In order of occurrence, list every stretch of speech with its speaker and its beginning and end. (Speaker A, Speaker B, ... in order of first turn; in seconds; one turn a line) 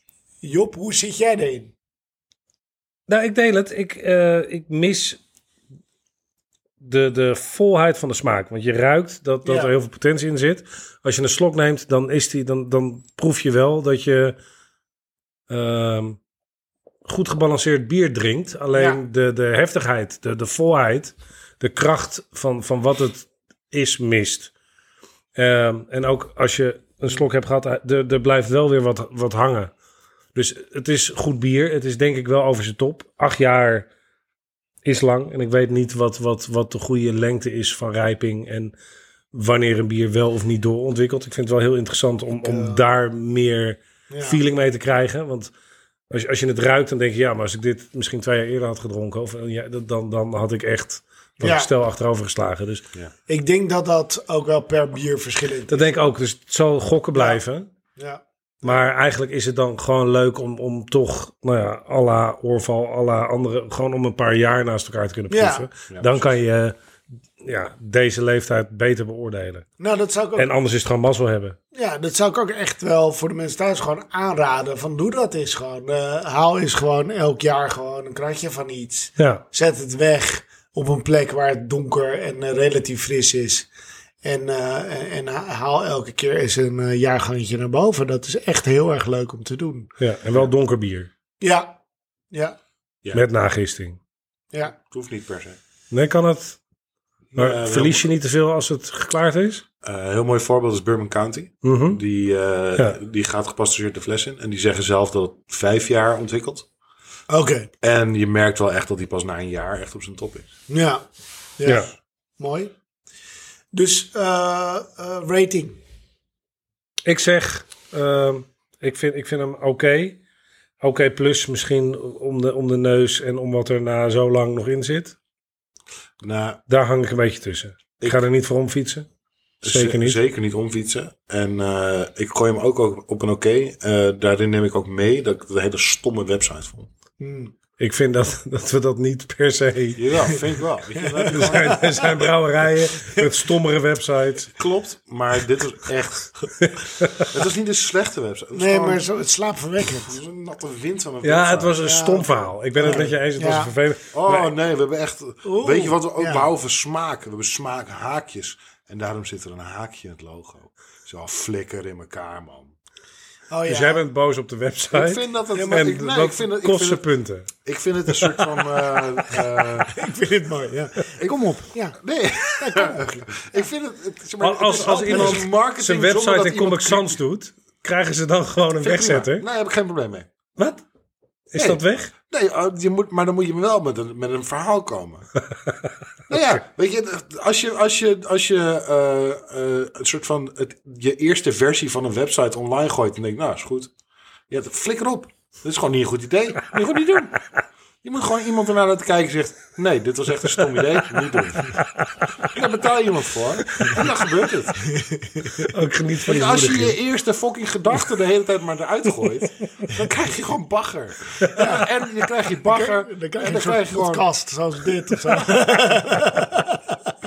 Speaker A: 0.4-1.7
Speaker B: 3.1-5.2
Speaker B: 6.8-14.4
Speaker A: 9.4-9.7
Speaker B: 15.5-16.2
Speaker B: 17.1-24.5
Speaker A: 18.7-19.0
Speaker B: 25.4-29.7
Speaker B: 30.3-33.9
Speaker B: 34.9-38.7
Speaker B: 39.3-45.5
Speaker A: 42.3-42.8
Speaker A: 44.1-44.4
Speaker B: 46.1-52.8
Speaker A: 51.4-51.7
Speaker A: 53.3-56.0
Speaker B: 55.7-57.7
Speaker A: 58.0-58.8
Speaker B: 58.6-66.8
Speaker A: 65.3-65.7
Speaker C: 65.9-66.3
Speaker B: 67.4-69.7
Speaker A: 69.8-70.5
Speaker B: 70.4-71.6
Speaker A: 71.7-83.7
Speaker A: 84.2-89.9
Speaker B: 90.0-91.1
Speaker A: 91.4-91.8
Speaker B: 93.1-94.0
Speaker C: 94.8-95.6
Speaker B: 95.9-96.6
Speaker C: 97.3-98.1
Speaker B: 97.3-99.6
Speaker C: 99.8-106.7
Speaker B: 101.6-102.0
Speaker A: 107.3-107.7
Speaker C: 107.8-110.5
Speaker A: 110.7-111.0
Speaker A: 111.6-112.7
Speaker A: 113.7-115.8
Speaker B: 117.1-120.2
Speaker B: 120.8-125.2
Speaker C: 126.2-126.6
Speaker B: 126.7-129.1
Speaker C: 129.6-136.9
Speaker B: 129.6-130.2
Speaker A: 137.2-137.5
Speaker B: 137.8-140.3
Speaker C: 140.0-141.9
Speaker A: 141.0-142.1
Speaker B: 141.3-144.5
Speaker C: 144.6-146.5
Speaker B: 146.6-147.3
Speaker C: 147.1-149.1
Speaker A: 148.5-150.2
Speaker C: 149.8-151.8
Speaker B: 151.2-154.5
Speaker A: 151.8-153.7
Speaker C: 154.1-162.7
Speaker A: 155.4-156.5
Speaker A: 163.5-164.0
Speaker B: 163.7-167.5
Speaker C: 164.9-167.1
Speaker A: 165.6-165.9
Speaker C: 167.6-169.9
Speaker B: 168.1-168.6
Speaker A: 169.9-173.7
Speaker C: 171.2-177.2
Speaker B: 174.4-179.4
Speaker A: 175.1-175.4
Speaker C: 178.8-180.3
Speaker B: 180.6-180.8
Speaker B: 181.5-182.1
Speaker C: 181.6-185.3
Speaker C: 186.3-193.9
Speaker C: 194.5-197.4
Speaker C: 198.0-201.8
Speaker B: 201.8-202.1
Speaker C: 202.4-204.8
Speaker A: 204.9-205.7
Speaker B: 205.6-207.0
Speaker C: 206.2-214.3
Speaker A: 211.6-211.9
Speaker A: 212.7-216.8
Speaker C: 215.3-215.6